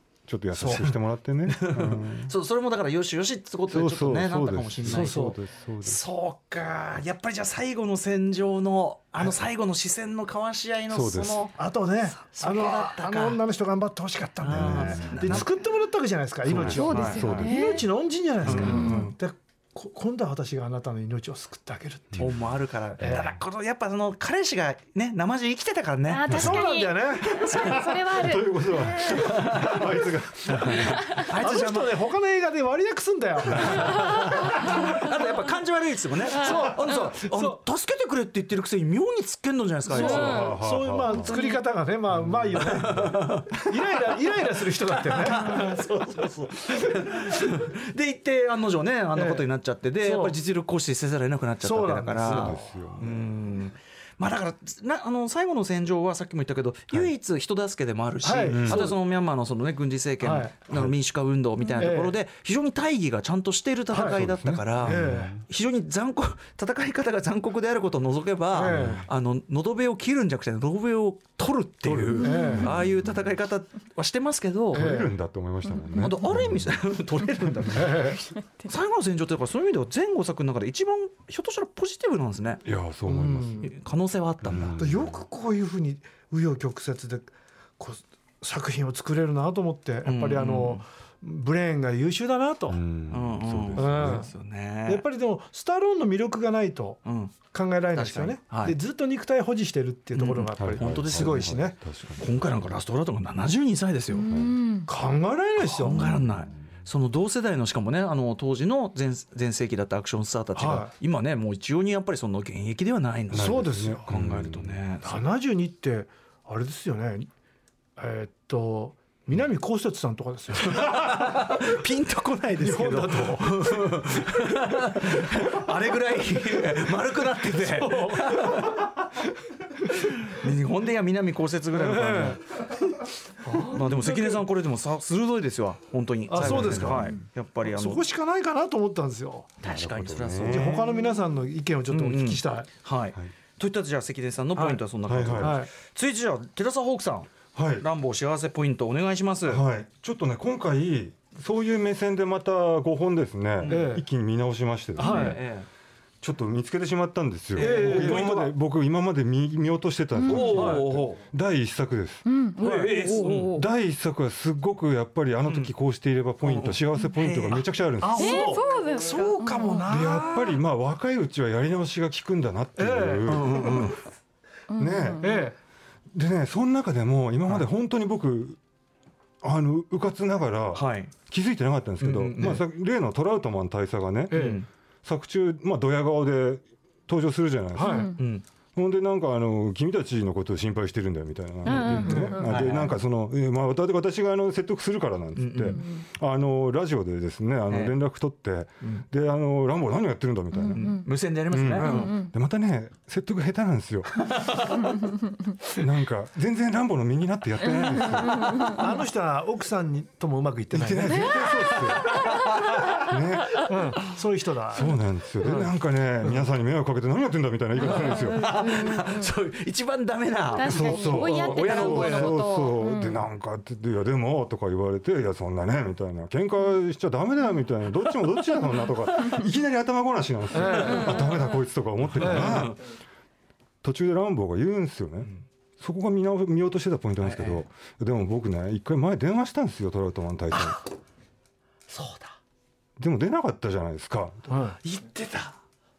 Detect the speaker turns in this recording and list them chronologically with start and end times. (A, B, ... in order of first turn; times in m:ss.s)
0:00.3-0:02.3 A
0:00.6-0:00.8 B
0:01.5-0:11.6 C
0:03.7-0:06.0 A
0:04.8-0:05.4 B
0:10.9-0:11.5 A
0:11.6-0:22.3 B
0:12.2-0:13.4 C
0:14.4-0:15.5 C
0:14.5-0:15.5 A
0:16.4-0:17.5 C
0:16.5-0:17.7 A
0:16.6-0:17.8 D
0:18.4-0:19.1 A
0:18.4-0:19.1 C
0:18.6-0:19.1 D
0:22.1-0:22.4 A
0:22.2-0:26.4 C
0:23.0-0:23.2 A
0:23.0-0:23.3 B
0:26.1-0:29.2 D
0:26.2-0:27.9 B
0:26.3-0:26.6 A
0:27.4-0:27.8 C
0:27.6-0:31.2 A
0:29.1-0:29.8 C
0:29.3-0:29.9 B
0:30.5-0:32.0 C
0:31.0-0:31.3 D
0:31.3-0:35.0 B
0:33.5-0:34.0 A
0:33.5-0:40.5 C
0:36.3-0:37.6 B
0:39.9-0:45.8 B
0:39.9-0:40.6 D
0:40.0-0:41.4 A
0:41.1-0:41.6 D
0:42.1-0:43.3 A
0:42.5-0:43.7 C
0:44.9-1:15.0 C
0:46.8-0:47.3 B
0:49.1-0:49.4 B
0:50.0-0:50.4 B
0:51.6-0:52.7 B
0:52.2-0:53.2 A
0:58.2-0:59.0 B
0:58.5-0:58.9 A
1:00.2-1:00.5 B
1:01.8-1:02.1 B
1:03.9-1:04.2 B
1:04.0-1:05.4 A
1:04.8-1:05.4 B
1:08.5-1:09.0 B
1:08.6-1:09.1 A
1:11.8-1:12.9 A
1:12.2-1:12.7 B
1:12.2-1:12.7 D
1:14.7-1:15.1 B
1:14.7-1:16.8 A
1:16.0-1:22.6 C
1:17.6-1:17.9 A
1:17.7-1:18.2 B
1:22.6-1:23.7 A
1:23.0-1:23.7 B
1:23.6-1:24.8 C
1:24.4-1:25.2 A
1:24.8-1:32.8 B
1:30.0-1:30.8 C
1:32.7-1:34.3 A
1:33.1-1:35.0 C
1:33.8-1:34.3 B
1:34.8-1:41.8 B
1:37.0-1:37.4 C
1:37.9-1:38.8 C
1:40.1-1:44.3 C
1:40.6-1:42.3 A
1:44.1-1:44.9 D
1:44.3-1:44.6 A
1:44.9-1:46.0 B
1:45.6-1:55.2 C
1:45.9-1:46.5 A
1:50.6-1:50.9 B
1:53.3-1:54.8 A
1:53.3-1:54.1 B
1:55.0-1:57.3 B
1:58.0-2:01.6 B
2:00.6-2:08.8 C
2:02.6-2:04.4 B
2:07.5-2:08.8 B
2:10.2-2:12.4 C
2:11.7-2:12.4 B
2:13.4-2:14.4 B
2:13.5-2:18.0 C
2:16.3-2:19.5 B
2:16.4-2:17.1 A
2:19.6-2:21.0 C
2:19.6-2:20.9 A
2:20.5-2:22.7 B
2:21.9-2:29.6 C
2:24.6-2:24.8 B
2:25.1-2:25.6 A
2:25.4-2:25.7 B
2:27.5-2:27.8 A
2:29.5-2:35.4 A
2:33.6-2:33.9 C
2:33.7-2:34.0 B
2:35.0-2:35.4 B
2:35.0-2:35.7 C
2:35.0-2:35.3 D
2:36.2-2:42.3 A
2:37.6-2:38.5 C
2:37.6-2:38.5 B
2:40.2-2:40.5 D
2:40.2-2:41.2 C
2:40.5-2:40.8 B
2:42.2-2:43.6 D
2:42.6-2:43.6 C
2:42.6-2:43.0 B
2:43.4-2:48.6 A
2:45.4-2:45.7 C
2:46.4-2:47.6 C
2:48.0-2:50.6 B
2:48.2-2:49.9 D
2:49.9-2:53.9 A
2:52.8-2:53.8 B
2:53.2-2:54.0 C
2:54.7-2:55.4 D
2:54.8-2:55.4 A
2:55.2-2:55.6 B
2:56.1-2:58.6 A
2:59.4-3:08.2 A
3:00.7-3:01.1 C
3:02.0-3:02.6 C
3:04.3-3:04.6 B
3:04.3-3:04.7 C
3:07.8-3:08.1 B
3:07.8-3:08.2 D
3:08.1-3:08.4 C
3:08.7-3:21.0 A
3:11.7-3:12.4 D
3:11.7-3:12.9 C
3:12.0-3:12.5 B
3:15.4-3:15.8 C
3:20.6-3:21.0 D
3:20.7-3:22.1 C
3:21.5-3:24.4 A
3:21.8-3:22.3 D
3:24.2-3:24.9 C
3:25.7-3:28.8 A
3:28.3-3:28.7 D
3:28.6-3:33.0 B
3:30.7-3:33.7 A
3:31.2-3:32.5 D
3:31.5-3:33.0 C
3:33.6-3:35.7 B
3:34.7-3:38.8 A
3:37.8-3:42.5 C
3:37.9-3:39.2 D
3:40.5-3:43.2 D
3:40.6-3:52.8 A
3:50.5-3:51.2 B
3:50.6-3:51.2 C
3:52.1-3:52.8 C
3:52.2-3:52.7 B
3:53.8-4:00.8 A
3:57.2-3:57.6 C
4:00.5-4:00.8 C
4:01.9-4:02.3 C
4:03.0-4:04.5 A
4:04.5-4:04.8 B
4:04.8-4:05.6 C